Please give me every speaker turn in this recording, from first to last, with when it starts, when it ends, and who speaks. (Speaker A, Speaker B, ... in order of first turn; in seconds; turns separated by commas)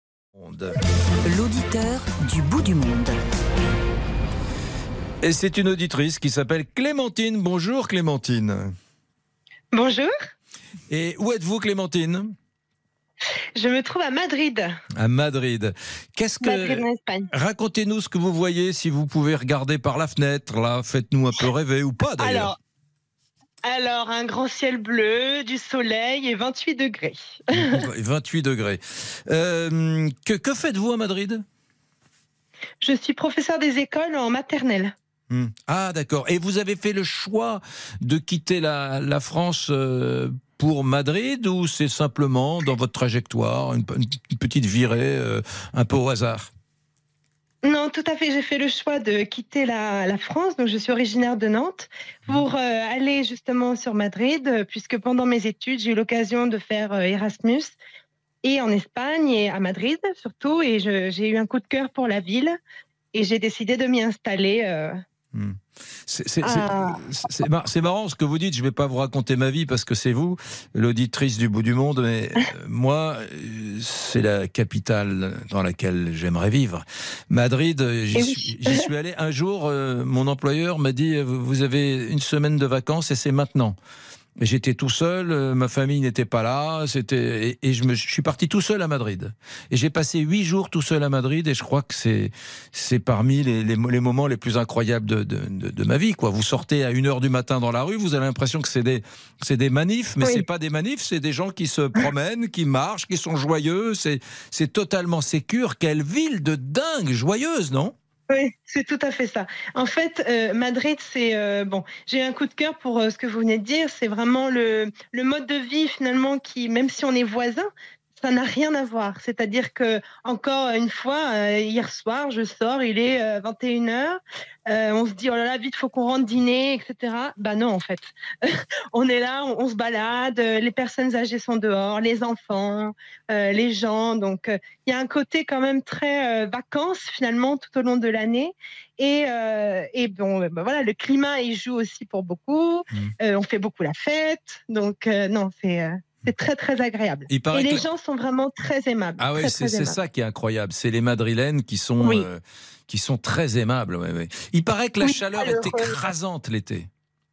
Speaker A: 0.3-0.8, Speaker B: 1.2-3.2, Speaker A: 5.2-8.7, Speaker C: 9.7-10.1, Speaker A: 10.9-12.3, Speaker C: 13.5-14.7, Speaker A: 15.0-22.5, Speaker C: 16.4-17.3, Speaker C: 22.2-22.6, Speaker C: 23.6-27.8, Speaker A: 27.5-31.4, Speaker C: 32.8-34.9, Speaker A: 35.3-46.5, Speaker C: 47.6-57.8, Speaker C: 58.4-62.6, Speaker C: 63.1-65.0, Speaker A: 65.3-83.8, Speaker C: 66.4-67.0, Speaker C: 78.2-78.8, Speaker A: 84.4-107.9, Speaker C: 108.3-150.0, Speaker A: 147.3-147.8, Speaker A: 149.2-156.9, Speaker C: 152.0-152.3, Speaker C: 155.0-156.0